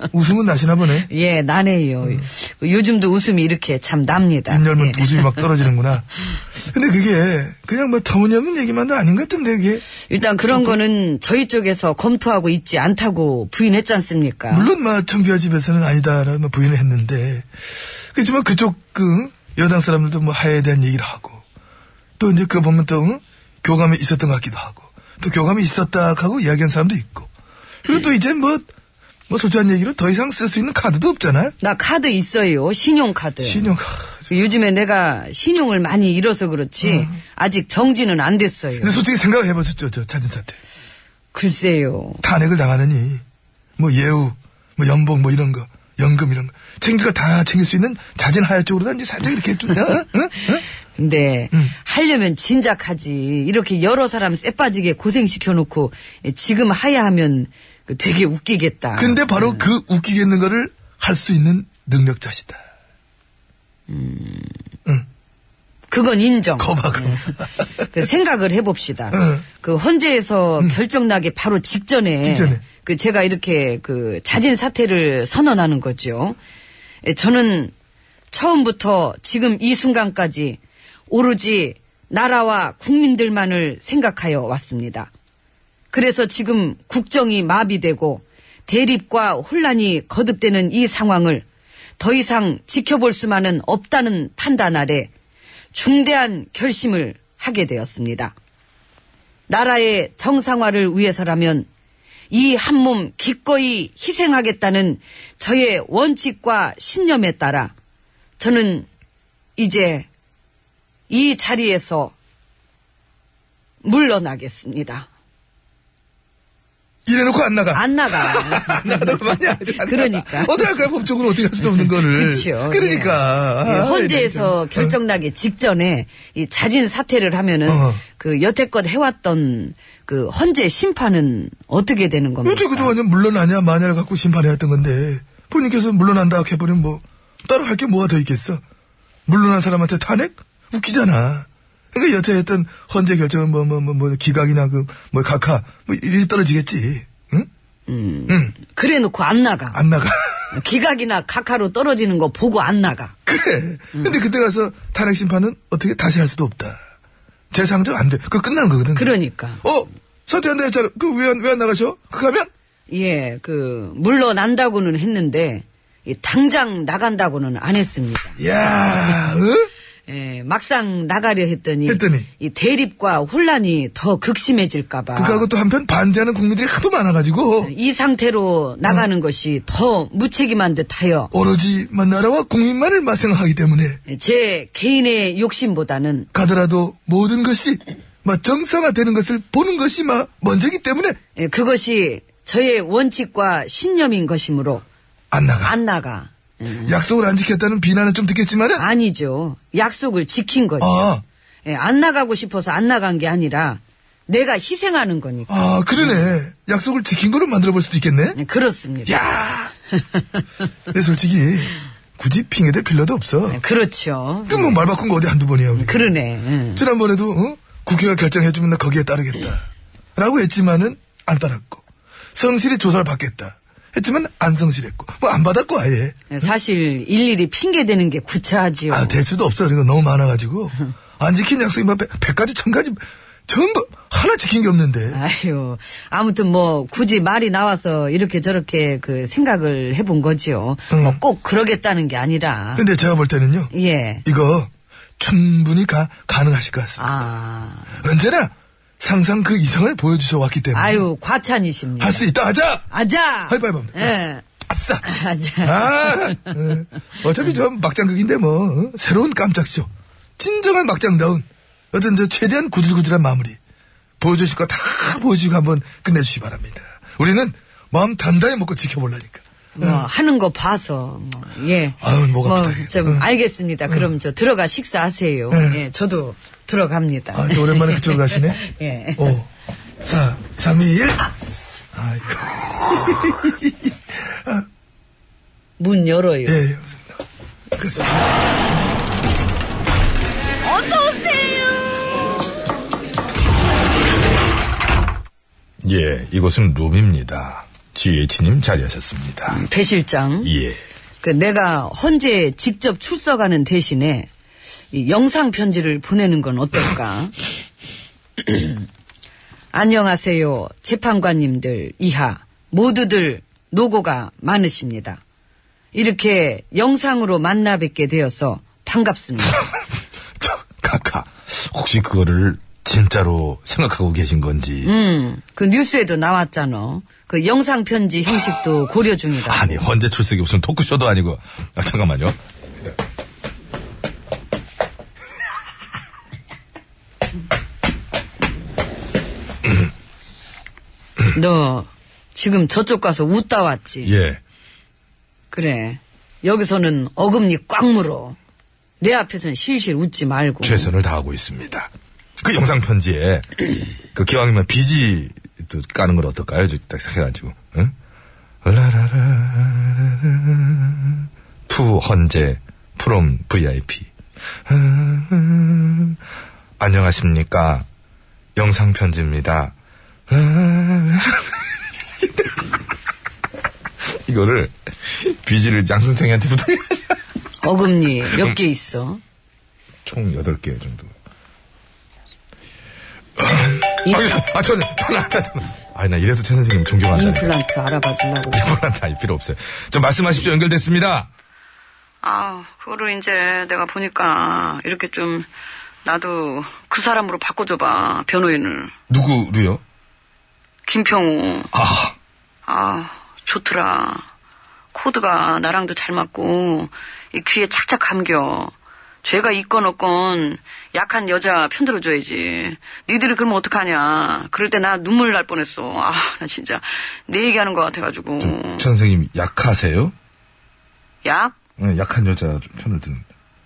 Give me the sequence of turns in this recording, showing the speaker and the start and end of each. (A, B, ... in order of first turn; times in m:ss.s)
0:00.1-0:01.1 A
0:01.1-0:05.4 B
0:04.5-0:09.8 A
0:10.1-0:14.7 B
0:10.5-0:10.8 A
0:14.5-0:17.5 A
0:18.1-0:21.4 A
0:22.2-0:27.3 A
0:27.8-0:28.7 A
0:29.3-0:31.5 A
0:31.6-0:33.7 B
0:33.4-0:34.1 A
0:34.3-0:39.0 B
0:36.8-0:37.2 A
0:38.8-0:40.6 A
0:41.3-0:42.2 B
0:42.2-0:43.2 A
0:43.8-0:50.6 A
0:51.0-0:59.7 B
0:59.0-1:02.6 A
1:03.9-1:04.6 B
1:05.9-1:16.4 B
1:06.6-1:07.6 A
1:09.1-1:09.4 A
1:12.2-1:12.6 A
1:17.0-1:17.7 B
1:18.3-1:20.6 B
1:21.1-1:25.1 B
1:25.9-1:31.4 B
1:32.0-1:35.1 B
1:35.7-1:38.3 B
1:39.5-1:41.7 B
1:42.3-1:47.7 B
1:48.4-1:48.9 B
1:49.6-1:50.1 B
1:51.1-1:52.1 B
1:53.8-1:55.1 B
1:57.0-2:05.0 A
1:57.7-2:00.6 B
2:01.7-2:12.9 B
2:07.6-2:08.0 A
2:12.4-2:18.6 A
2:19.3-2:27.5 A
2:27.9-2:29.8 B
2:28.3-2:28.5 A
2:29.7-2:30.5 A
2:30.5-2:33.1 B
2:33.2-2:36.8 A
2:37.5-2:42.5 A
2:38.9-2:39.6 B
2:42.9-2:48.4 B
2:48.4-2:49.7 A
2:50.1-2:55.4 B
2:51.8-2:52.3 A
2:55.2-2:57.7 A
2:57.6-3:01.3 B
3:01.3-3:04.0 A
3:04.1-3:06.3 B
3:06.3-3:11.2 A
3:11.4-3:14.8 B
3:15.3-3:15.7 A
3:15.6-3:17.0 B
3:16.8-3:18.8 A
3:18.8-3:21.1 B
3:20.8-3:21.2 A
3:21.6-3:26.3 B
3:25.5-3:28.4 A
3:28.3-3:29.2 B
3:29.0-3:29.7 A
3:29.9-3:30.4 B
3:30.9-3:33.6 A
3:33.5-3:34.8 B
3:34.5-3:36.1 A
3:35.7-3:36.8 B
3:36.8-3:39.6 A
3:40.2-3:41.8 A
3:42.3-3:46.2 A
3:46.3-3:49.2 B
3:48.9-3:55.2 A
3:55.1-4:02.8 B
4:00.9-4:01.2 A
4:02.8-4:03.7 A
4:03.7-4:04.2 B
4:04.2-4:07.2 A
4:07.0-4:07.9 B
4:08.0-4:11.0 A
4:10.7-4:12.2 B
4:12.0-4:12.9 A
4:12.9-4:14.4 B
4:13.5-4:15.0 A
4:15.0-4:16.5 B
4:15.6-4:23.6 A
4:24.2-4:30.1 A
4:29.8-4:39.3 B
4:32.0-4:33.2 A
4:35.5-4:35.8 A
4:37.3-4:38.6 A
4:39.2-4:39.5 A
4:40.0-4:41.3 A
4:41.9-4:44.6 A
4:45.8-4:46.6 B
4:46.4-4:47.0 A
4:47.7-4:48.3 A
4:50.6-4:51.7 B
4:55.8-4:59.6 C
4:59.5-5:00.5 B
5:00.4-5:00.8 C
5:01.2-5:04.3 B
5:04.9-5:07.3 B
5:08.4-5:08.8 B
5:09.7-5:15.2 B
5:15.9-5:19.6 B
5:20.4-5:24.9 C
5:24.8-5:29.8 B
5:29.4-5:32.4 C
5:39.6-5:39.9 C
5:41.3-5:44.1 B
5:44.0-5:44.4 C
5:45.5-5:48.4 B
5:49.0-5:50.9 B
5:50.6-5:57.9 C
5:58.6-6:04.1 C
6:04.6-6:06.2 C
6:06.8-6:07.8 C
6:08.6-6:09.7 C
6:10.3-6:11.6 C
6:14.0-6:17.2 C
6:17.6-6:19.2 B
6:18.3-6:18.6 C
6:20.0-6:21.1 C
6:23.4-6:27.5 C
6:24.0-6:24.3 B
6:27.1-6:28.6 B
6:28.5-6:31.3 C
6:32.2-6:35.5 B
6:36.0-6:38.9 B
6:39.1-6:39.8 C
6:40.8-6:41.7 B
6:41.7-6:42.1 C
6:42.7-6:44.2 B
6:44.9-6:48.7 B
6:49.2-6:58.8 B
6:58.4-7:00.1 C
7:01.2-7:01.5 B
7:01.8-7:03.2 C